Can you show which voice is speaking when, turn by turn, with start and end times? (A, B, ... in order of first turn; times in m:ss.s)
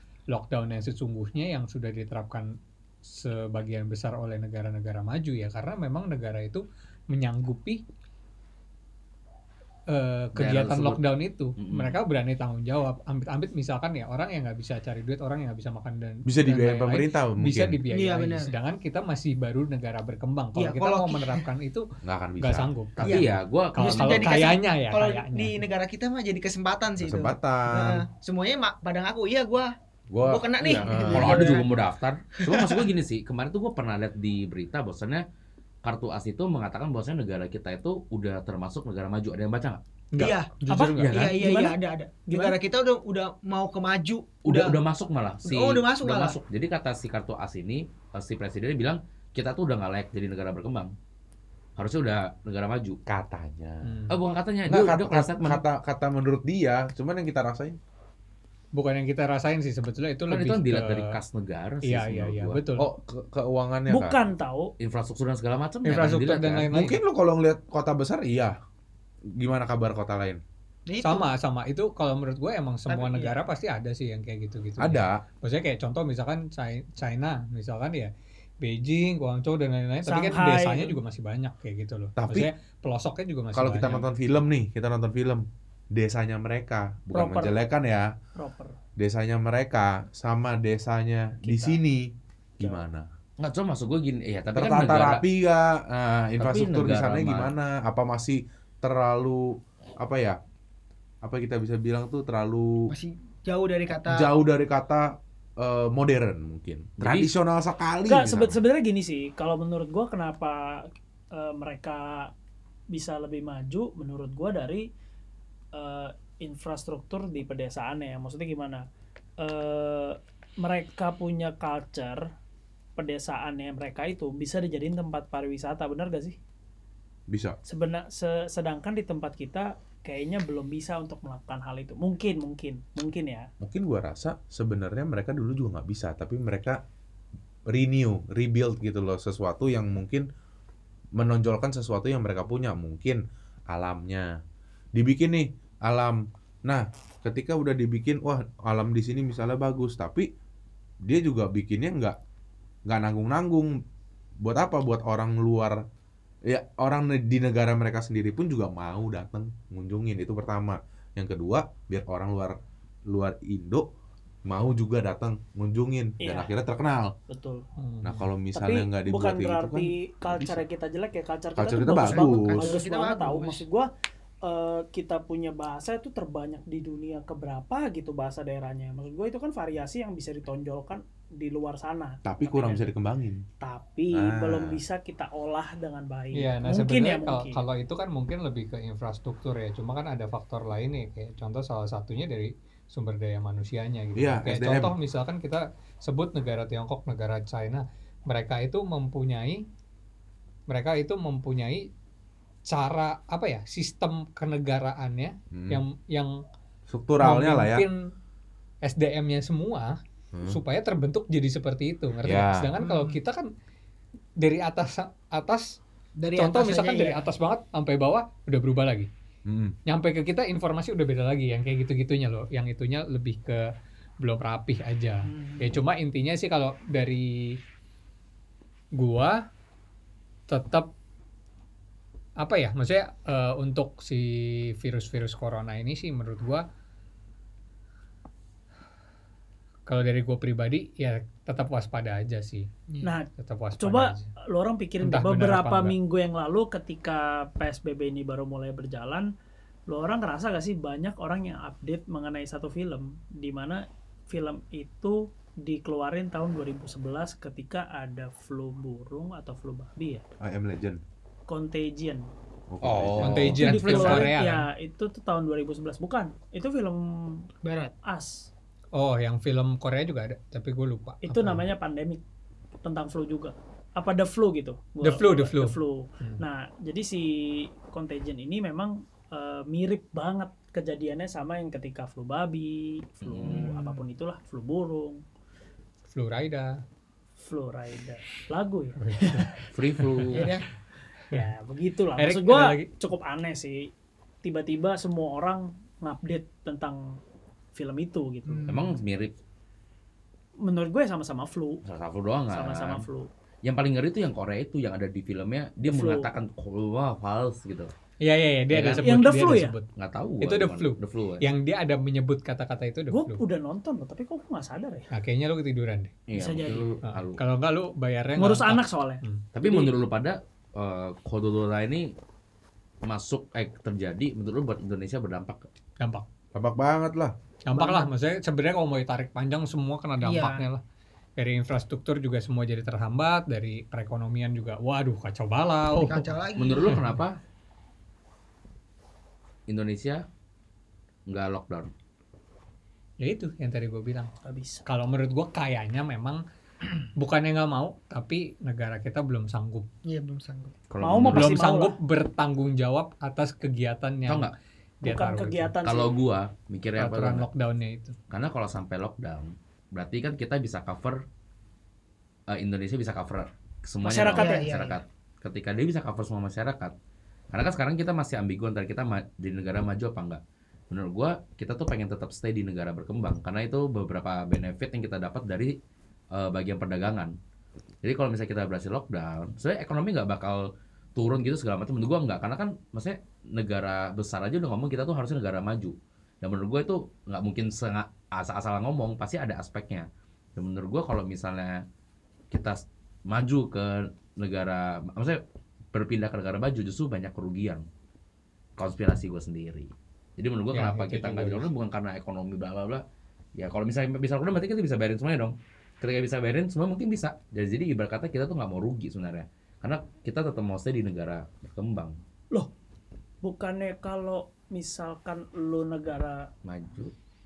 0:00.3-0:02.5 A
0:03.0-0:07.8 A
0:09.9-0:21.9 A
0:10.4-0:11.0 B
0:11.6-0:12.0 B
0:16.3-0:17.8 C
0:17.9-0:18.5 D
0:20.6-0:21.5 D
0:22.0-0:22.7 C
0:22.4-0:25.6 A
0:23.0-0:24.4 B
0:23.0-0:31.7 D
0:27.0-0:28.1 C
0:30.1-0:31.6 C
0:30.6-0:35.2 B
0:32.4-0:32.9 D
0:35.8-0:39.8 B
0:40.1-0:41.1 A
0:40.2-0:44.8 D
0:40.7-0:42.6 E
0:41.0-0:41.4 B
0:44.4-0:50.9 B
0:45.4-0:46.4 D
0:51.8-0:53.0 B
0:53.1-0:54.0 C
0:53.8-0:54.2 A
0:54.1-0:55.6 B
0:54.7-0:57.8 C
0:58.7-1:01.2 A
1:00.3-1:02.6 B
1:01.8-1:02.9 A
1:02.8-1:04.2 C
1:03.9-1:04.7 E
1:04.8-1:06.7 B
1:05.8-1:07.0 A
1:06.7-1:08.6 C
1:09.4-1:10.4 C
1:10.9-1:11.3 D
1:11.0-1:23.9 A
1:12.9-1:13.4 D
1:14.8-1:15.2 C
1:20.0-1:21.0 E
1:22.2-1:22.5 C
1:23.5-1:28.2 C
1:27.1-1:27.6 E
1:28.4-1:28.8 E
1:29.0-1:33.1 C
1:31.4-1:31.8 E
1:33.4-1:35.2 B
1:34.6-1:40.4 C
1:36.4-1:37.5 B
1:41.2-1:42.9 C
1:42.9-1:44.3 D
1:44.1-1:48.6 C
1:47.0-1:47.3 B
1:48.1-1:52.3 E
1:52.9-1:54.9 E
1:55.7-1:58.9 E
1:59.4-2:02.3 E
2:03.0-2:06.4 E
2:07.3-2:07.6 C
2:07.7-2:13.5 E
2:13.6-2:16.8 C
2:17.7-2:20.3 C
2:21.2-2:24.4 C
2:25.0-2:30.3 C
2:31.0-2:32.2 C
2:32.9-2:33.8 C
2:34.4-2:35.8 C
2:36.5-2:43.9 C
2:44.4-2:47.2 C
2:46.2-2:46.5 E
2:47.3-2:47.6 E
2:47.8-2:48.2 A
2:48.0-2:50.6 C
2:48.5-2:53.9 E
2:51.6-2:52.8 C
2:52.0-2:53.6 D
2:54.4-3:02.9 E
3:02.2-3:03.4 C
3:03.6-3:07.6 E
3:04.1-3:04.8 C
3:06.3-3:19.7 A
3:14.2-3:15.0 C
3:20.7-3:21.9 A
3:22.7-3:26.4 A
3:25.5-3:25.8 C
3:26.9-3:27.9 C
3:27.2-3:28.1 A
3:28.8-3:33.5 A
3:30.3-3:30.6 C
3:32.2-3:32.7 C
3:32.8-3:33.2 D
3:34.4-3:35.8 A
3:36.2-3:37.3 D
3:36.4-3:39.1 A
3:39.5-3:39.8 C
3:39.9-3:43.6 A
3:44.2-3:47.6 A
3:45.2-3:45.8 D
3:49.0-3:49.4 A
3:50.5-3:50.9 A
3:52.4-3:56.6 A
3:59.9-4:02.7 A
4:03.0-4:09.3 E
4:03.4-4:04.3 A
4:05.0-4:06.0 A
4:09.9-4:20.2 E
4:20.4-4:21.0 C
4:21.5-4:22.3 E
4:22.7-4:23.7 C
4:22.8-4:24.3 B
4:23.2-4:24.7 A
4:23.6-4:27.5 E
4:27.6-4:27.9 D
4:28.0-4:28.5 E
4:29.0-4:31.7 A
4:31.2-4:32.2 E
4:32.8-4:45.2 E
4:35.0-4:36.4 A
4:43.2-4:43.6 B
4:43.4-4:44.0 D
4:46.1-4:46.8 A
4:47.4-4:49.6 E
4:49.0-4:50.3 A
4:49.7-4:50.5 B
4:50.3-4:50.6 D
4:51.3-4:53.9 E
4:52.2-4:52.9 A
4:54.4-4:57.0 E
4:57.8-4:58.7 E
4:58.5-4:59.0 D
4:58.7-4:59.3 B
5:00.6-5:01.8 E
5:01.8-5:03.1 B
5:02.5-5:03.3 E
5:03.6-5:07.9 B
5:05.8-5:06.3 E
5:08.2-5:09.9 A
5:08.7-5:09.2 B
5:09.0-5:09.8 E
5:10.0-5:11.4 B
5:10.4-5:13.4 A
5:13.1-5:15.1 E
5:15.1-5:16.1 A
5:16.3-5:17.4 B
5:16.3-5:17.0 E
5:17.1-5:19.4 A
5:18.4-5:19.9 E
5:19.5-5:22.1 B
5:23.0-5:25.6 B
5:26.0-5:26.2 A
5:26.5-5:27.4 C
5:27.7-5:30.8 A
5:27.8-5:28.1 D
5:30.2-5:30.6 D
5:31.4-5:36.3 A
5:35.9-5:37.0 D
5:36.6-5:37.4 B
5:36.9-5:37.2 A
5:39.7-5:40.2 B
5:41.3-5:41.9 B
5:43.2-5:44.3 A
5:44.4-5:44.8 E
5:44.9-5:46.4 A
5:47.2-5:49.9 A
5:50.1-5:50.7 D
5:50.9-5:51.6 B
5:51.0-5:52.0 E
5:51.3-5:55.8 A
5:54.3-5:54.5 B
5:55.0-5:56.1 E
5:55.8-5:57.5 B
5:57.0-5:58.2 A
5:58.3-6:01.2 B
6:02.5-6:06.9 B
6:04.0-6:04.6 E
6:04.3-6:05.0 D
6:07.5-6:15.8 B
6:16.3-6:17.3 B
6:18.0-6:31.8 B
6:32.5-6:35.4 B
6:35.9-6:37.8 B
6:38.8-6:43.0 B
6:40.7-6:41.7 A
6:43.6-6:52.2 B
6:53.4-6:56.5 E
6:56.6-6:57.1 B